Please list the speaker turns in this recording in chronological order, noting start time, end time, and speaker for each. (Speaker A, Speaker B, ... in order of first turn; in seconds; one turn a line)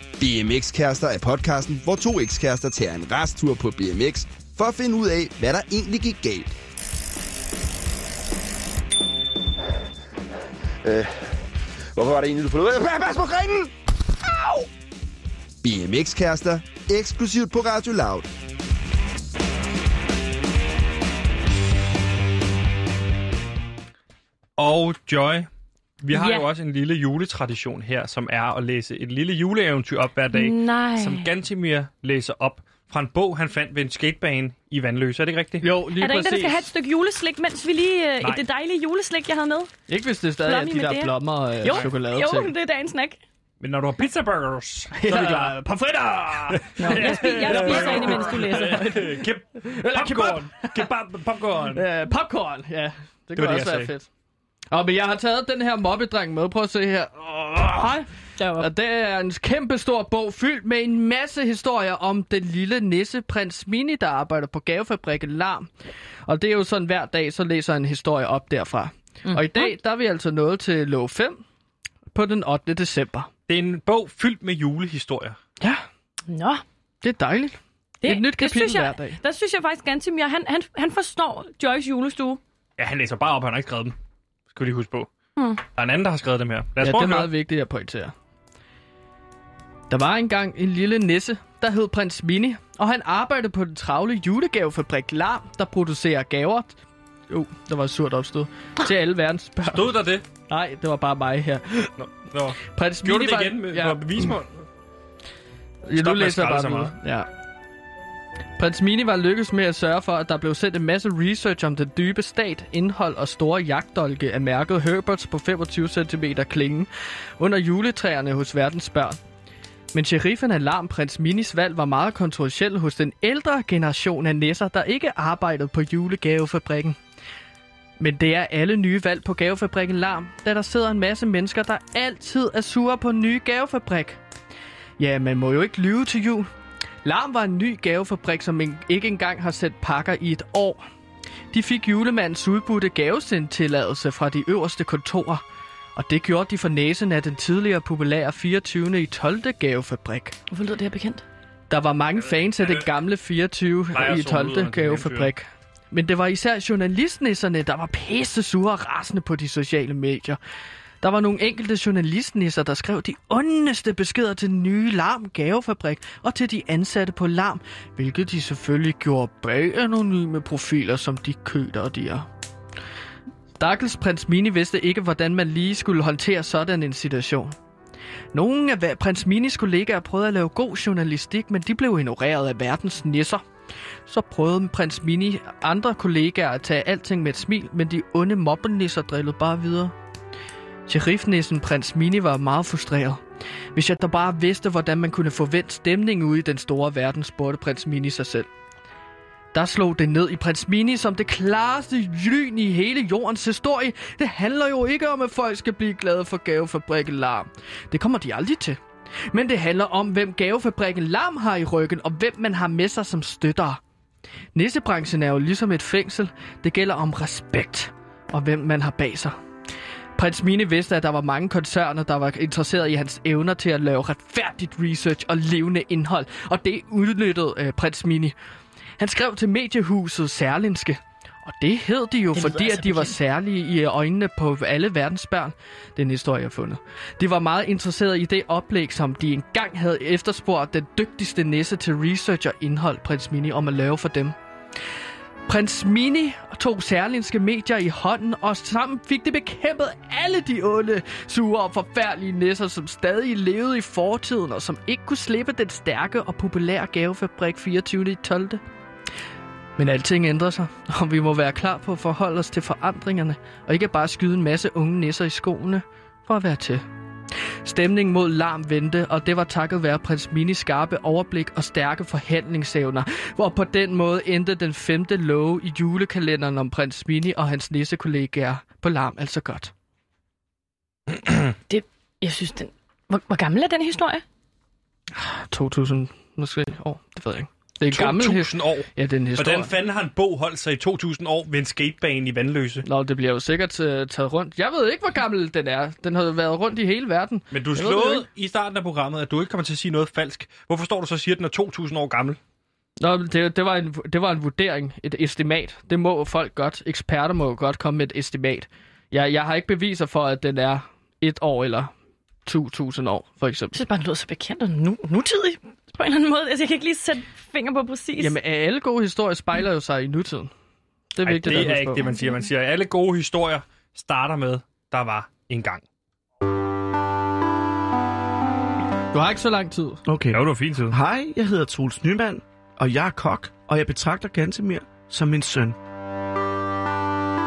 Speaker A: 0.2-6.5
Speaker A: 10.8-11.4
Speaker A: 11.9-14.7
Speaker A: 15.6-18.3
Speaker B: 24.6-25.5
Speaker B: 26.0-35.7
Speaker C: 26.1-26.4
Speaker C: 30.3-31.3
Speaker D: 35.6-36.7
Speaker C: 36.0-39.7
Speaker D: 39.9-42.5
Speaker C: 40.4-43.2
Speaker B: 43.6-45.6
Speaker D: 44.9-50.9
Speaker B: 46.5-51.8
Speaker C: 46.8-49.1
Speaker D: 51.7-54.1
Speaker B: 53.4-53.9
Speaker D: 54.7-58.0
Speaker C: 57.8-58.7
Speaker D: 58.6-65.7
Speaker D: 66.2-71.4
Speaker C: 69.2-69.7
Speaker D: 72.1-73.3
Speaker B: 73.5-75.4
Speaker C: 76.3-76.6
Speaker D: 77.0-79.2
Speaker C: 78.0-82.4
Speaker B: 82.8-83.9
Speaker B: 84.5-85.1
Speaker B: 85.8-87.3
Speaker D: 86.8-88.1
Speaker D: 89.9-96.8
Speaker D: 97.3-101.9
Speaker B: 99.6-100.2
Speaker B: 102.0-104.7
Speaker D: 102.6-104.3
Speaker D: 105.8-107.3
Speaker B: 106.0-106.9
Speaker D: 108.6-119.2
Speaker D: 119.9-127.0
Speaker D: 128.0-134.2
Speaker D: 135.0-136.5
Speaker D: 137.0-140.8
Speaker D: 141.5-145.4
Speaker D: 145.9-150.4
Speaker C: 150.5-151.2
Speaker D: 151.7-160.4
Speaker B: 152.2-152.9
Speaker B: 153.9-155.3
Speaker D: 161.0-172.3
Speaker D: 173.6-177.6
Speaker D: 178.3-183.4
Speaker D: 184.1-189.9
Speaker D: 190.9-193.2
Speaker D: 193.7-198.5
Speaker D: 199.5-213.8
Speaker D: 214.5-219.3
Speaker D: 220.2-228.3
Speaker D: 229.0-244.3
Speaker C: 232.3-233.2
Speaker D: 245.5-258.6
Speaker D: 259.8-266.8
Speaker D: 267.6-279.7
Speaker C: 281.7-284.2
Speaker D: 285.1-289.7
Speaker B: 287.9-292.9
Speaker D: 292.8-298.2
Speaker B: 297.5-302.4
Speaker D: 303.0-311.9
Speaker D: 312.4-313.8
Speaker C: 313.7-318.3
Speaker D: 318.2-320.5
Speaker D: 321.1-322.1
Speaker B: 321.2-325.8
Speaker D: 329.1-330.0
Speaker E: 330.1-335.8
Speaker B: 330.3-330.9